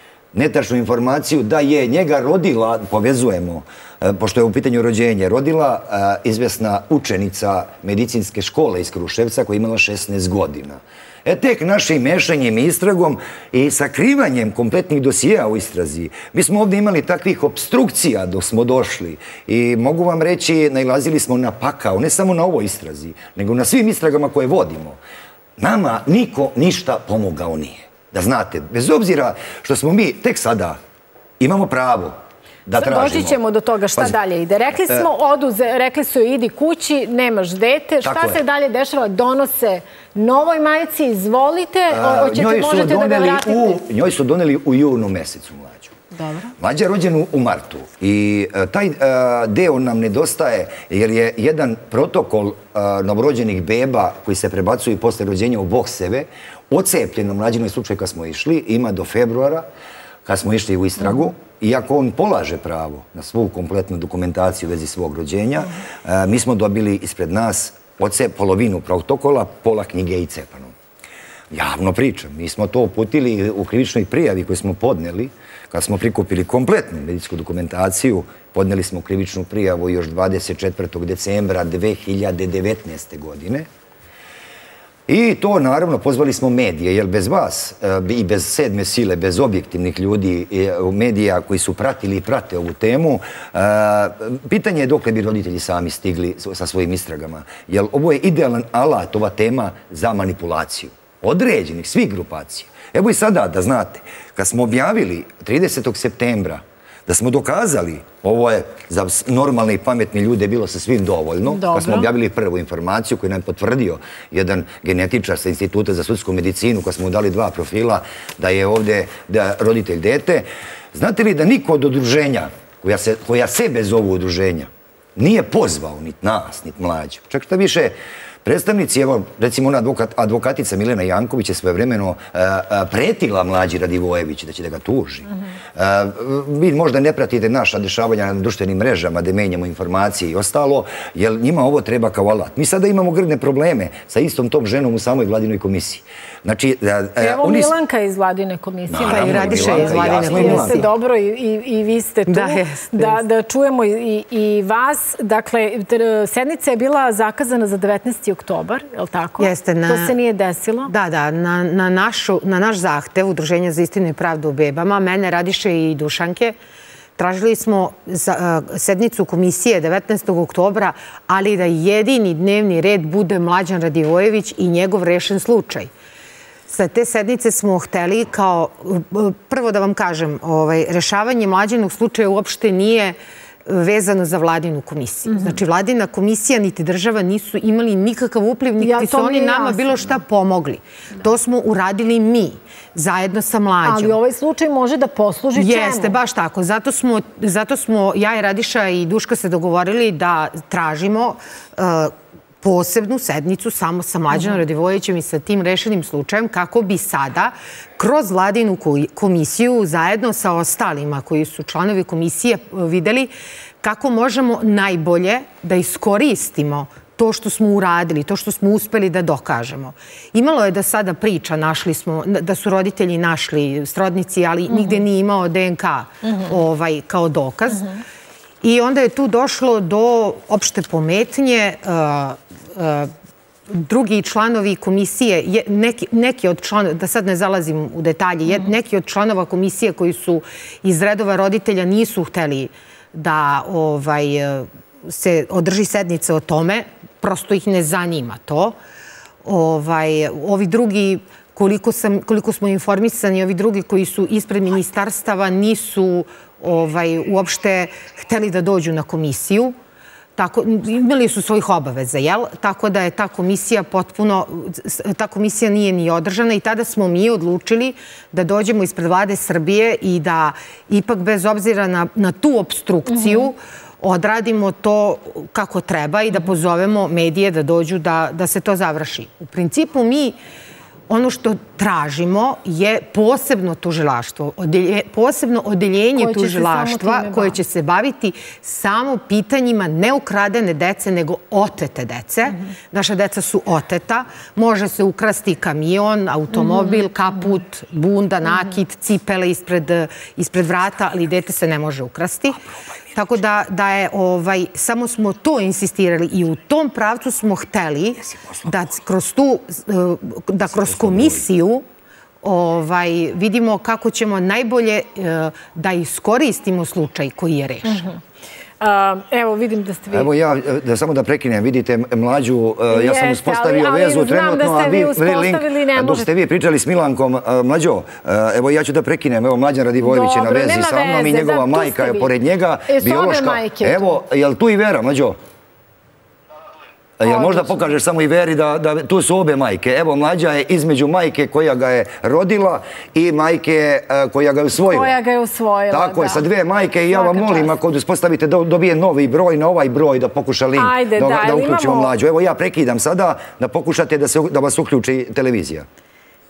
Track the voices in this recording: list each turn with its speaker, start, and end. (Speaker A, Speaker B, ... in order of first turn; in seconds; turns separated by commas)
Speaker A: 0.3-25.0, Speaker A: 25.6-30.8, Speaker A: 31.4-33.4, Speaker B: 32.8-43.8, Speaker A: 38.0-38.4, Speaker A: 41.9-45.9, Speaker B: 46.1-46.5, Speaker A: 46.6-59.6, Speaker A: 60.2-70.7, Speaker A: 71.5-83.7, Speaker A: 85.1-147.7, Speaker B: 111.4-112.1, Speaker B: 147.2-160.9, Speaker A: 148.9-150.8, Speaker C: 149.1-150.9, Speaker C: 152.3-153.2, Speaker C: 159.4-160.2, Speaker C: 160.9-166.5, Speaker C: 167.2-175.9, Speaker C: 176.7-194.2, Speaker B: 188.8-190.1, Speaker B: 193.8-196.2, Speaker C: 195.5-227.9, Speaker B: 224.7-225.0, Speaker C: 228.6-233.1, Speaker C: 233.7-248.8, Speaker C: 249.4-259.8, Speaker C: 260.4-280.4, Speaker C: 281.1-302.6, Speaker B: 286.1-287.6, Speaker C: 303.1-311.8, Speaker A: 311.1-311.4, Speaker C: 312.4-318.1, Speaker B: 317.8-318.2, Speaker B: 318.8-320.3, Speaker A: 320.1-335.4, Speaker B: 322.9-326.3, Speaker B: 330.0-332.3, Speaker B: 332.9-334.0, Speaker A: 337.2-345.1, Speaker B: 337.2-337.8, Speaker B: 344.9-346.4, Speaker A: 345.9-355.9, Speaker B: 347.1-347.7, Speaker B: 350.7-352.1